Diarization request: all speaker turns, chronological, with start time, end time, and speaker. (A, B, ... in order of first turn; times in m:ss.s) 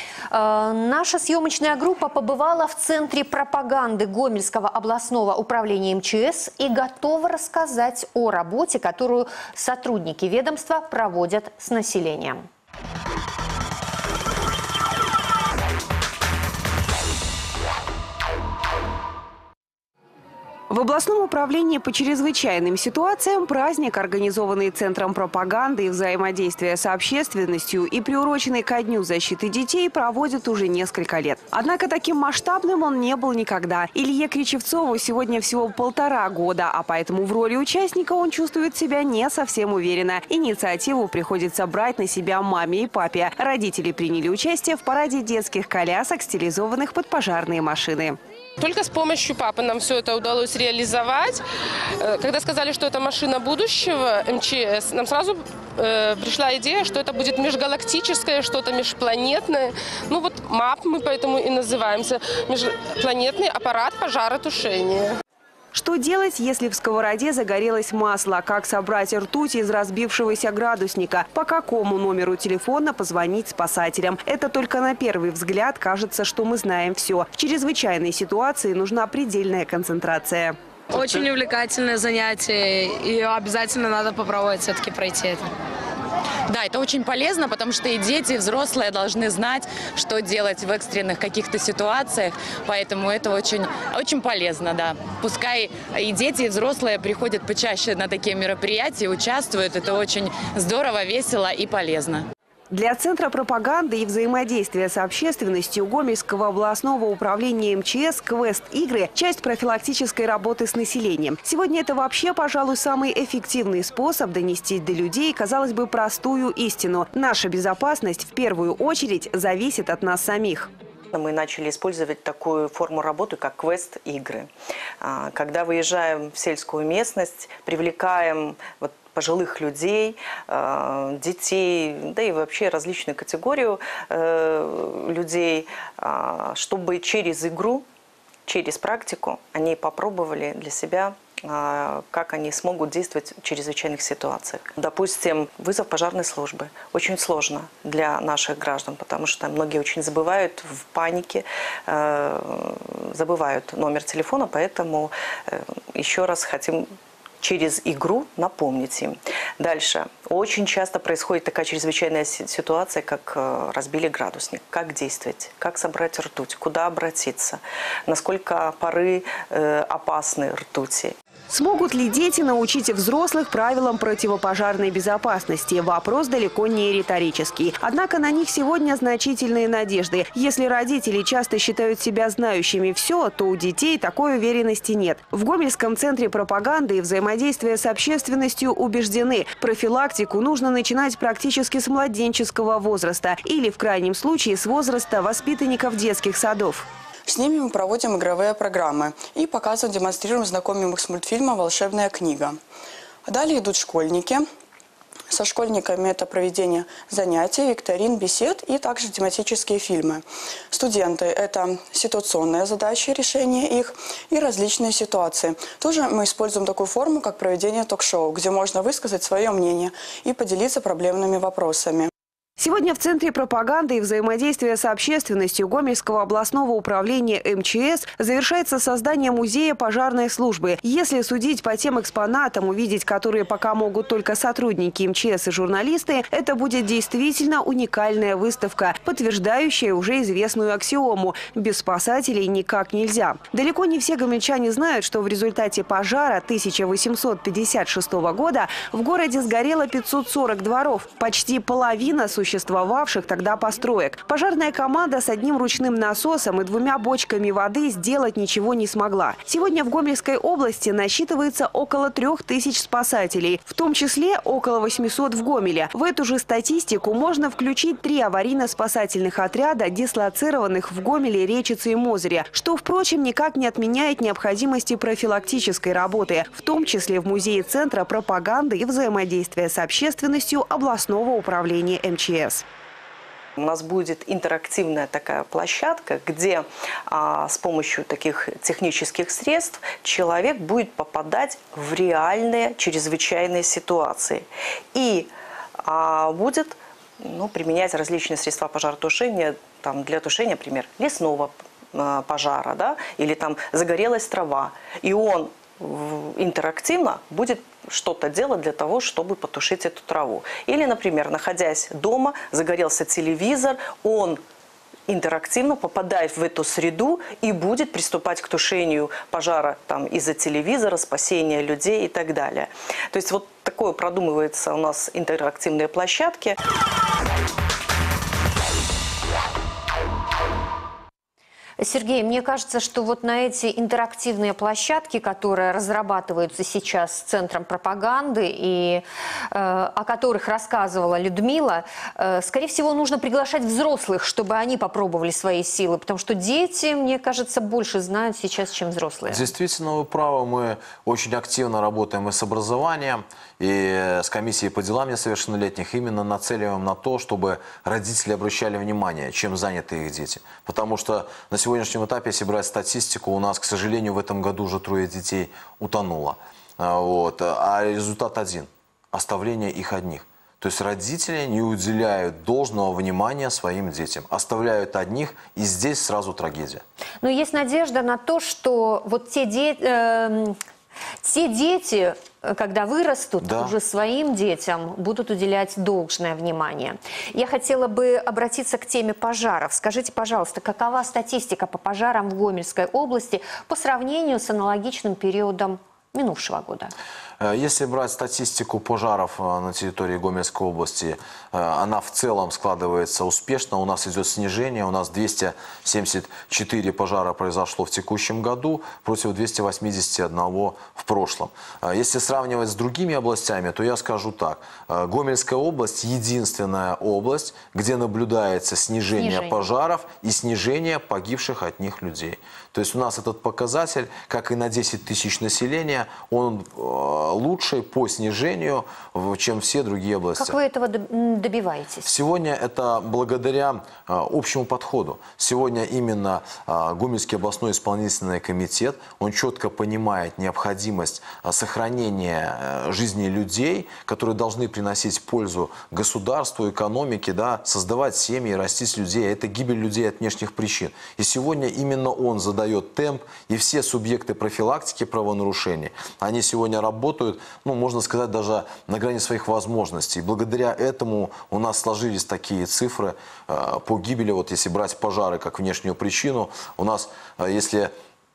0:00.3-0:12.4 A
0:20.7-0:48.2 B
0:48.6-0:51.4 C
0:52.0-1:05.1 C
1:05.7-1:20.6 B
1:20.9-1:25.4 D
1:26.5-1:42.2 E
1:42.7-2:00.7 B
2:01.1-2:04.5 F
2:05.0-2:17.8 F
2:18.5-2:36.9 F
2:37.4-2:51.2 F
2:51.5-3:16.9 B
3:17.3-3:22.6 G
3:23.3-3:24.5 G
3:25.3-3:42.1 G
3:42.6-4:42.6 B
4:43.6-5:14.4 F
5:15.1-5:26.6 F
5:31.8-5:49.5 A
5:49.3-6:16.8 H
6:17.2-6:20.6 A
6:21.2-6:36.9 A
6:23.4-6:23.8 H
6:37.4-7:10.6 H
6:59.2-6:59.7 A
7:10.4-7:12.1 A
7:12.0-7:47.9 H